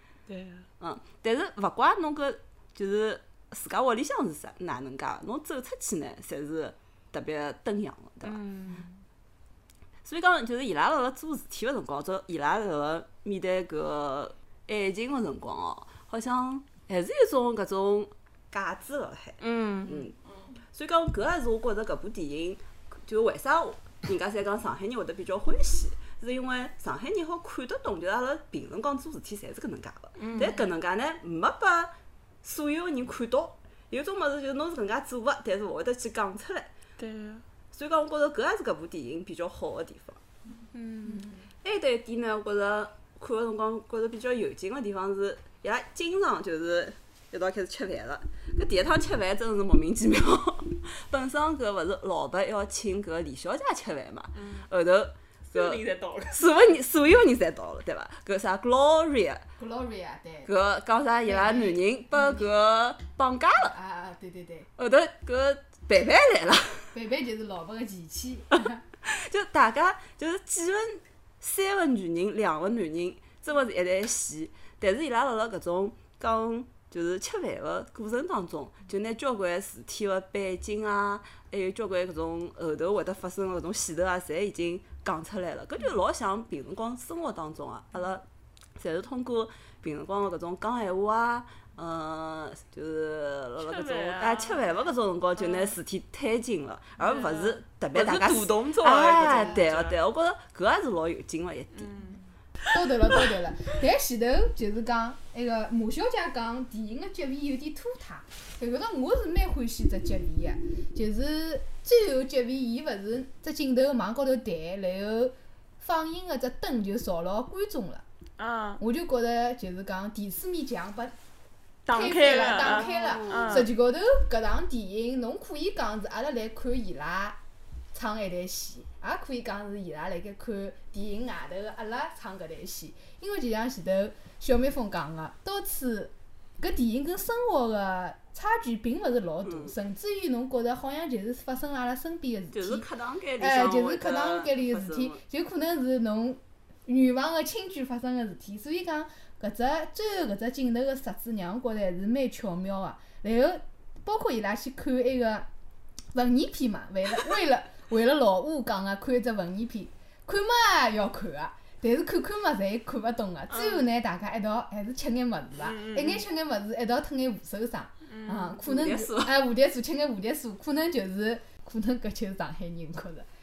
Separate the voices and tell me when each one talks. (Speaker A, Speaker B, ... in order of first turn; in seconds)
Speaker A: 0.3-0.7, 8.2-8.9, 19.4-20.0, 30.2-30.6, 37.0-37.4, 40.7-41.3, 55.5-56.4, 93.6-94.6, 95.4-95.8, 97.0-100.0, 101.8-102.2, 118.4-118.8, 121.8-123.7, 163.5-163.8, 165.6-166.2, 168.1-168.6
Speaker B: 0.8-8.4, 10.0-20.1, 20.7-36.7, 37.7-40.2, 41.6-59.5, 60.5-63.7, 64.8-66.9, 69.0-88.2, 88.8-102.1, 122.6-123.5, 139.4-139.7, 142.5-145.2, 168.6-169.3
Speaker C: 41.0-41.3, 59.6-60.5, 61.2-62.4, 63.7-64.7, 66.9-68.8, 102.7-118.0, 118.8-121.1, 121.9-127.4, 127.9-142.8, 143.4-155.5, 156.1-173.3